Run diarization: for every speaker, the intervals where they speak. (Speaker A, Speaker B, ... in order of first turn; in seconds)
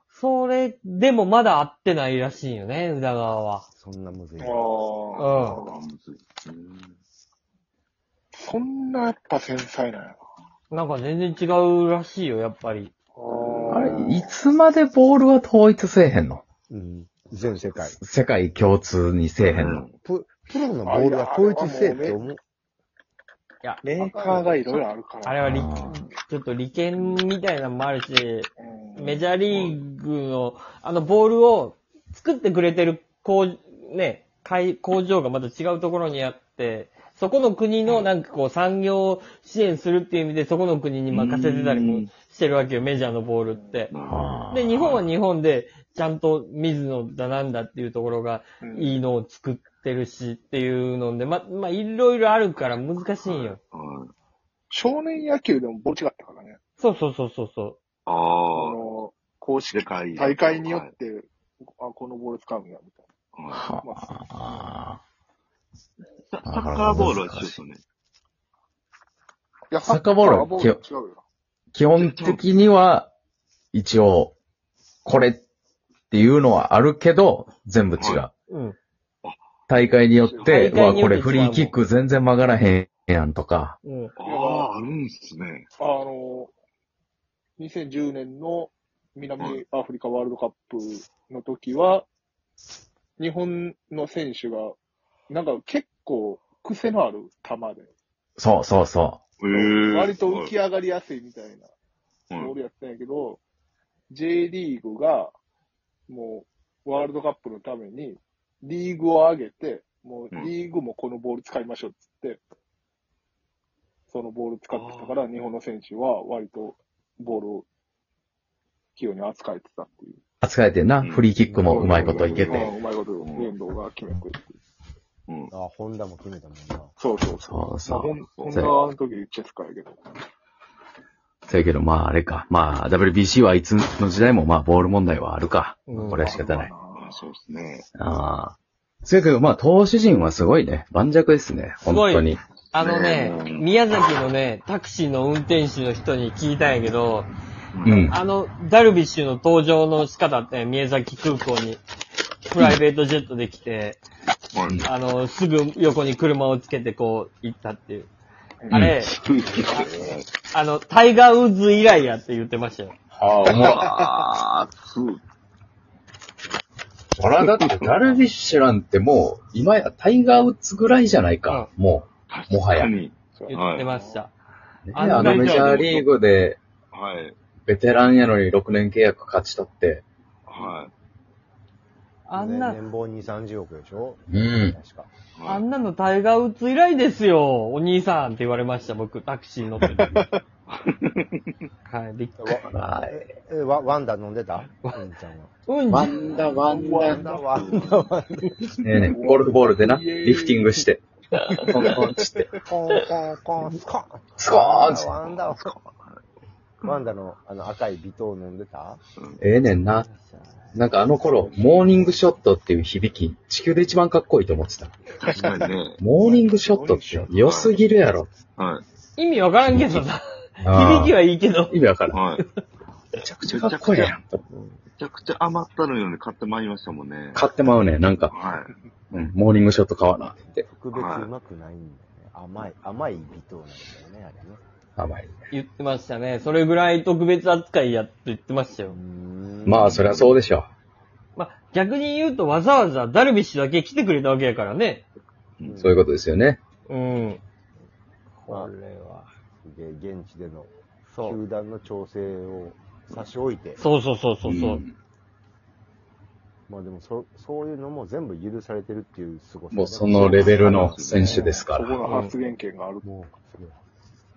Speaker A: 0.1-3.7, 5.2-5.6, 10.7-12.9, 23.6-24.4, 25.2-43.9, 44.5-53.6, 56.8-57.8, 78.5-78.8, 80.4-81.8, 83.8-84.1, 135.9-136.3, 141.9-147.3, 148.1-151.8, 152.4-154.0, 154.8-158.1, 158.7-159.1, 159.7-162.9, 173.5-174.3, 174.9-175.7, 182.2-182.8, 185.4-190.2, 191.9-192.7, 195.7-196.5, 209.8-210.8, 219.2-221.8, 224.5-224.8, 235.5-239.0, 241.4-245.1, 246.9-247.4, 248.4-249.3, 251.1-251.4, 253.8-254.8, 262.0-262.3
Speaker B: 3.8-4.7, 16.7-18.0, 20.0-22.4, 121.4-122.7, 125.5-127.0, 182.3-185.1, 192.4-195.5, 196.7-198.6, 202.6-205.7, 206.8-209.0, 230.5-234.6, 238.9-239.9, 245.6-246.1, 249.6-253.8, 256.7-261.0, 263.0-263.8
Speaker C: 4.4-5.8, 8.3-10.2, 13.2-14.4, 20.8-22.2, 23.8-25.6, 28.6-29.8, 43.5-43.9, 48.6-49.0, 54.7-56.6, 58.5-63.0, 63.8-64.2, 69.7-71.2, 80.2-81.1, 84.2-84.9, 85.8-86.5, 87.6-92.0, 93.2-94.8, 95.3-97.9, 99.5-101.7, 102.3-103.4, 104.1-105.3, 106.1-112.4, 114.1-117.7, 119.0-120.2, 121.6-124.6, 127.0-130.0, 136.1-137.2, 173.3-174.2, 190.1-190.4, 196.6-197.8, 199.0-200.8, 201.8-202.5, 215.2-217.5, 261.1-263.1
Speaker D: 5.1-6.9, 13.4-13.9, 19.4-19.9, 41.1-42.1, 43.9-44.4, 53.3-54.1, 58.0-58.8, 59.7-60.9, 63.3-63.6, 66.2-67.8, 71.9-72.5, 78.0-78.2, 79.2-79.9, 84.2-85.7, 99.4-100.5, 114.7-115.2, 121.0-123.5, 128.4-128.7, 136.9-137.9, 142.7-143.7, 147.7-148.1, 154.5-154.8, 159.0-160.3, 163.5-165.2, 167.4-168.1, 172.3-173.9, 175.0-176.1, 176.9-177.4, 180.5-180.9, 185.4-185.6, 190.7-191.4, 197.1-198.1, 205.1-206.2, 209.2-209.4, 215.2-216.0, 217.4-217.8, 218.6-218.8, 222.1-222.4, 223.4-224.2, 225.0-227.5, 228.3-228.8, 230.9-231.3, 239.8-240.4, 260.2-261.4
Speaker E: 13.7-16.4, 17.8-19.8, 25.4-26.0, 44.1-45.0, 63.5-65.0, 66.4-67.6, 69.8-70.8, 71.7-73.1, 73.7-74.3, 75.0-75.4, 76.1-78.3, 79.7-83.8, 98.4-99.2, 120.4-122.7, 127.4-128.7, 131.5-136.7, 138.0-142.4, 147.8-148.2, 158.7-159.0, 163.1-163.8, 167.2-172.9, 174.9-176.6, 177.6-180.1, 184.3-184.8, 192.7-193.2, 195.9-197.4, 198.8-201.0, 201.7-202.5, 204.4-205.2, 209.4-210.1, 210.7-214.9, 216.0-218.3, 220.6-221.2, 221.7-222.2, 223.2-224.4, 227.3-228.4, 229.1-230.6, 235.0-235.4, 239.7-240.7, 245.8-246.6, 254.4-254.9, 259.7-261.9